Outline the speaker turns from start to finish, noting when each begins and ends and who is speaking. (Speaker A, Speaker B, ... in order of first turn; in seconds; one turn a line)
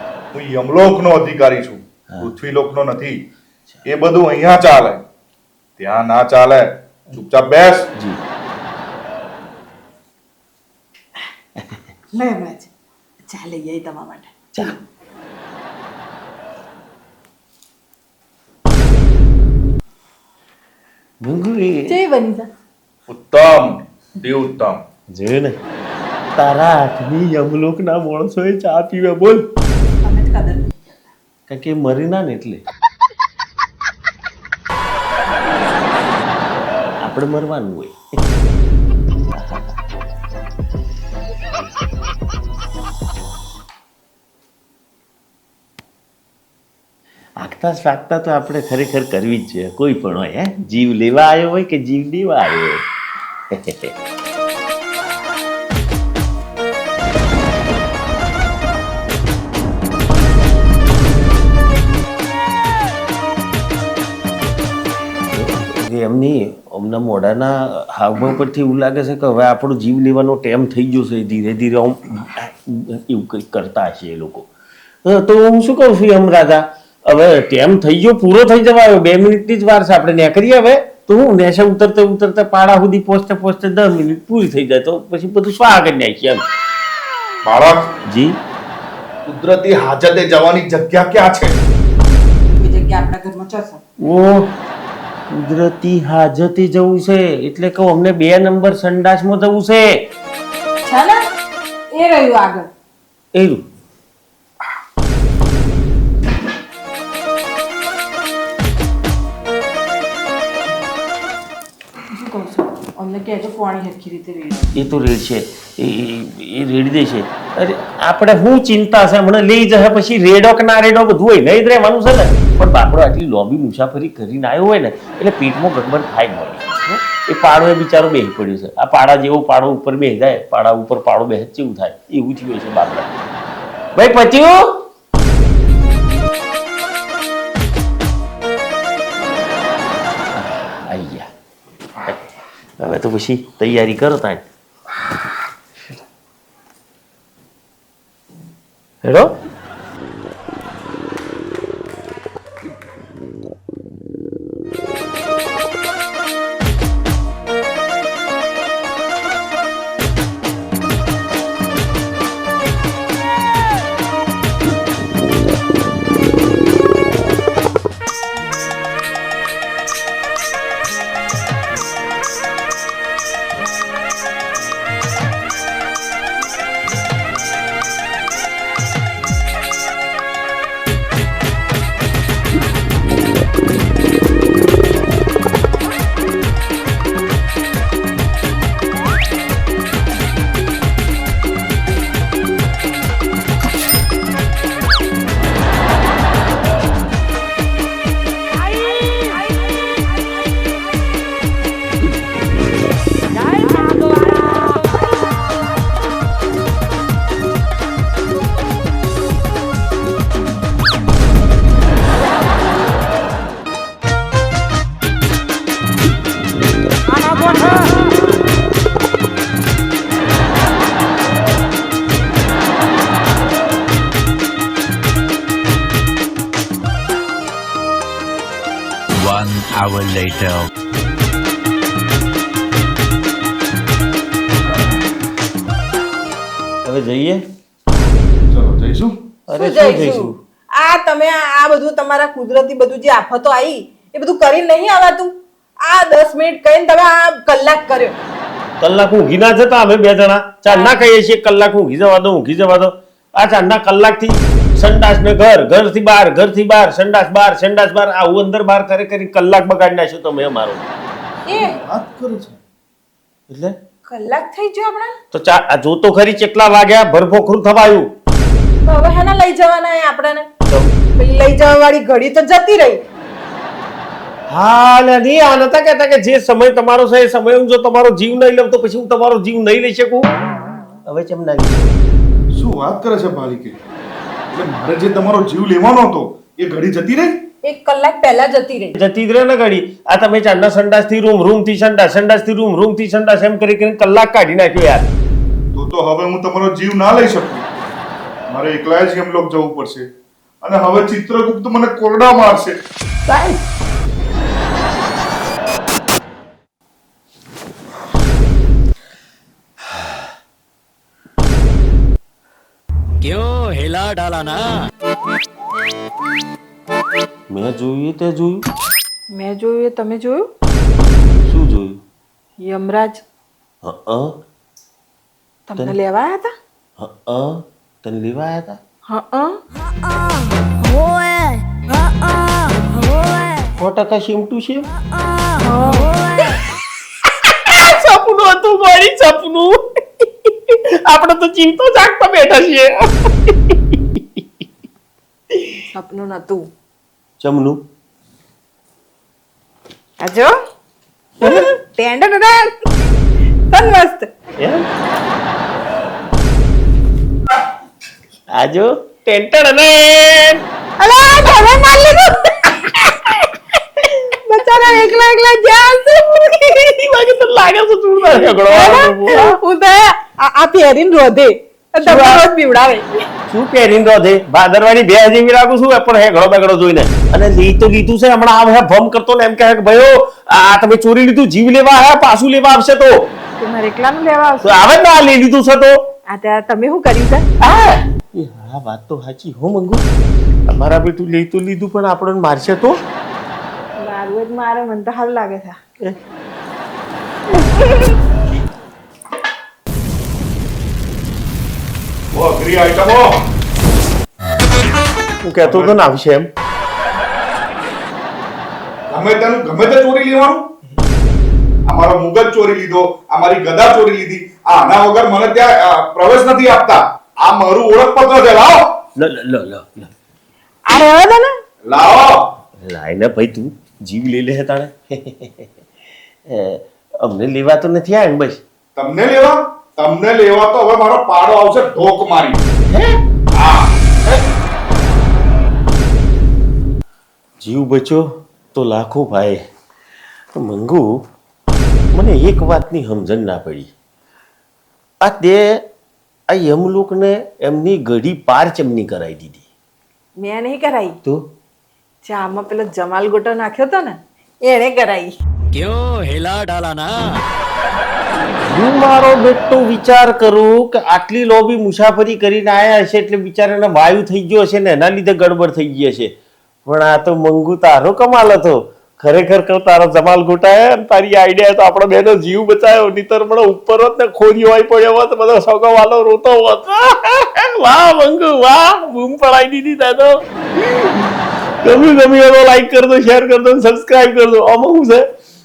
Speaker A: 0.3-3.2
Speaker A: 3.9-5.0
Speaker A: 5.8-7.9
Speaker B: 12.1-12.7
Speaker B: 13.2-14.7
Speaker C: 21.2-22.0
Speaker B: 21.9-22.5
Speaker A: 23.1-24.8
Speaker C: 25.1-25.6
Speaker C: 26.4-29.4
Speaker B: 29.7-31.1
Speaker C: 31.5-32.6
Speaker C: 37.0-38.0
Speaker C: 39.3-39.7
Speaker C: 47.4-52.8
Speaker C: 53.5-53.9
Speaker C: 65.3-74.5
Speaker C: 75.0-86.4
Speaker A: 87.4-87.8
Speaker C: 88.1-88.3
Speaker A: 89.2-91.5
Speaker B: 92.4-93.8
Speaker C: 94.0-94.5
Speaker C: 95.3-99.8
Speaker B: 100.8-101.2
Speaker B: 101.9-102.7
Speaker C: 103.3-103.6
Speaker B: 112.1-114.8
Speaker C: 114.7-133.1
Speaker C: 133.9-134.8
Speaker C: 140.3-141.3
Speaker C: 142.0-144.5
Speaker C: 149.0-149.4
Speaker B: 217.2-218.0
Speaker D: 229.1-230.7
Speaker C: 236.8-237.4
Speaker A: 238.5-239.2
Speaker C: 239.5-240.4
Speaker B: 239.5-248.2
Speaker C: 248.8-260.8
Speaker B: 250.7-251.0
Speaker B: 261.4-261.8
Speaker A: 261.5-262.6
Speaker C: 263.5-263.8
Speaker B: 264.1-265.1
Speaker C: 265.3-268.1
Speaker B: 268.8-270.5
Speaker C: 270.7-270.9
Speaker B: 271.2-273.0
Speaker C: 274.5-280.4
Speaker C: 281.1-282.0
Speaker A: 282.5-283.8
Speaker A: 284.5-287.4
Speaker B: 287.6-288.9
Speaker C: 288.9-295.1
Speaker A: 295.7-297.7
Speaker A: 298.5-300.1
Speaker A: 300.6-302.7
Speaker C: 303.3-303.6
Speaker D: 313.2-314.7
Speaker C: 317.5-318.6
Speaker B: 319.3-320.5
Speaker C: 321.4-322.0
Speaker B: 322.6-323.2
Speaker C: 323.8-324.4
Speaker B: 325.7-326.5
Speaker C: 327.0-328.8
Speaker B: 329.1-329.6
Speaker C: 333.7-334.9
Speaker B: 335.6-336.1
Speaker C: 337.4-344.4
Speaker C: 345.5-345.8
Speaker B: 345.9-346.7
Speaker C: 347.4-347.8
Speaker B: 350.2-350.5
Speaker B: 351.4-352.8
Speaker C: 351.4-351.7
Speaker B: 353.7-354.3
Speaker C: 354.6-354.8
Speaker C: 358.5-360.6
Speaker B: 361.0-363.4
Speaker B: 364.0-366.8
Speaker C: 366.8-369.6
Speaker B: 368.7-373.2
Speaker C: 372.0-372.4
Speaker C: 373.5-383.3
Speaker B: 383.6-384.8
Speaker C: 384.6-385.9
Speaker B: 386.3-387.4
Speaker C: 387.6-390.0
Speaker C: 390.7-393.0
Speaker B: 394.0-395.8
Speaker A: 402.3-403.4
Speaker C: 405.4-406.5
Speaker A: 405.6-406.0
Speaker A: 409.1-410.6
Speaker A: 411.9-418.9
Speaker C: 419.1-420.1
Speaker B: 420.9-421.6
Speaker A: 421.9-422.4
Speaker C: 422.8-425.9
Speaker C: 426.4-428.6
Speaker A: 428.9-432.6
Speaker C: 432.9-433.1
Speaker A: 433.5-434.4
Speaker C: 437.6-439.6
Speaker C: 440.5-441.2
Speaker C: 442.1-443.9
Speaker C: 445.2-445.8
Speaker C: 446.5-449.6
Speaker B: 450.4-451.2
Speaker B: 452.2-455.3
Speaker D: 455.7-457.4
Speaker C: 458.6-466.3
Speaker C: 466.8-485.3